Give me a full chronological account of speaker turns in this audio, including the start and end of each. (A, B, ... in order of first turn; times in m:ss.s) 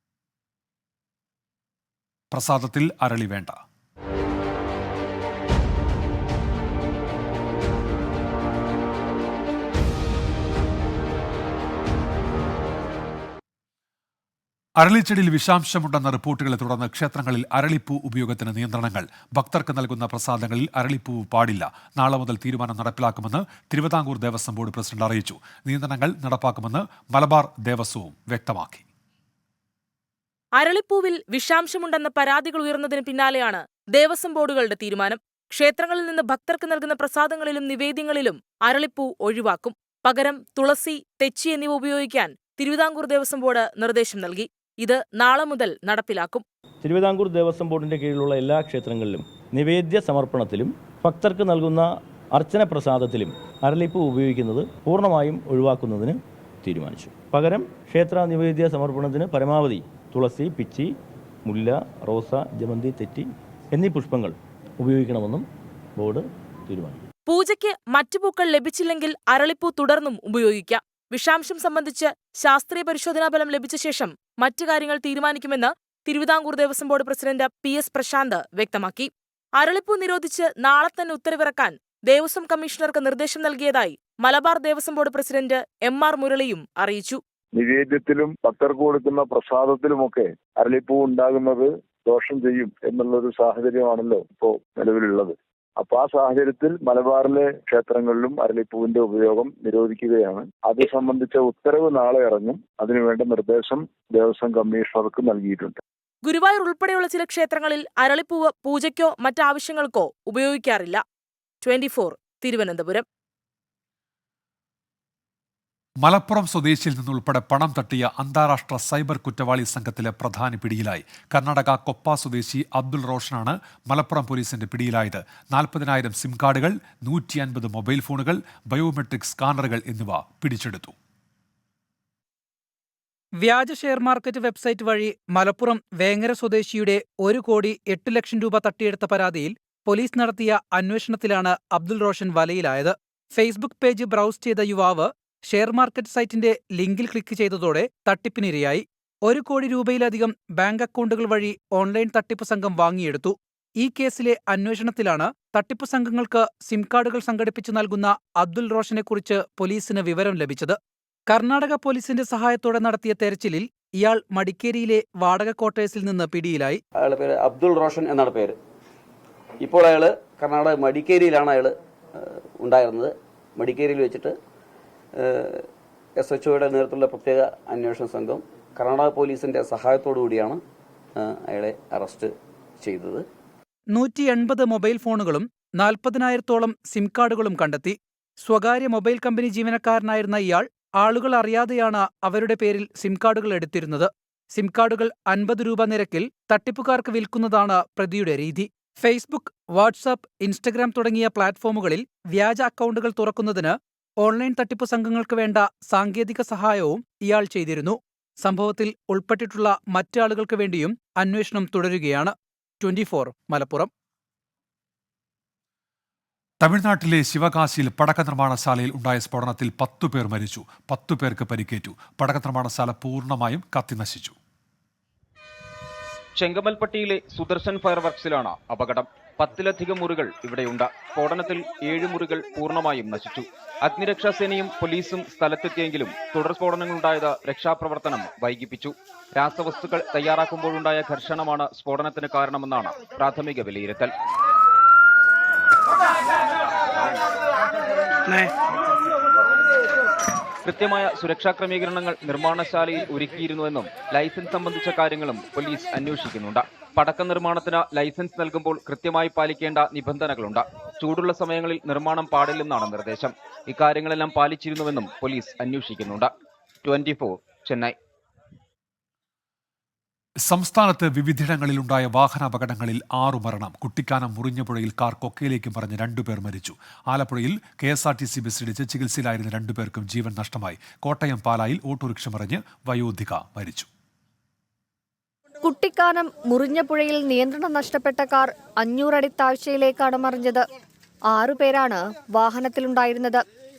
0:02.3-0:03.6 A
0:14.8-0:28.8 A
0:30.6-0:46.4 B
0:46.8-1:00.9 C
1:01.5-1:05.5 C
1:06.0-1:07.1 C
1:07.3-1:27.2 B
1:27.5-1:45.8 D
1:46.2-1:51.0 B
1:51.6-1:53.0 B
1:56.0-2:10.9 A
2:13.4-2:40.8 E
2:41.3-2:46.8 E
2:47.0-2:48.6 F
2:49.6-2:54.3 F
2:55.2-2:55.6 F
2:56.2-3:00.6 F
3:01.2-3:03.2 F
3:03.9-3:33.9 E
3:36.6-3:44.3 A
3:46.4-4:04.1 G
4:10.6-4:26.3 G
4:26.8-4:28.0 G
4:30.4-4:43.9 A
4:45.6-4:50.6 H
4:51.3-4:53.4 H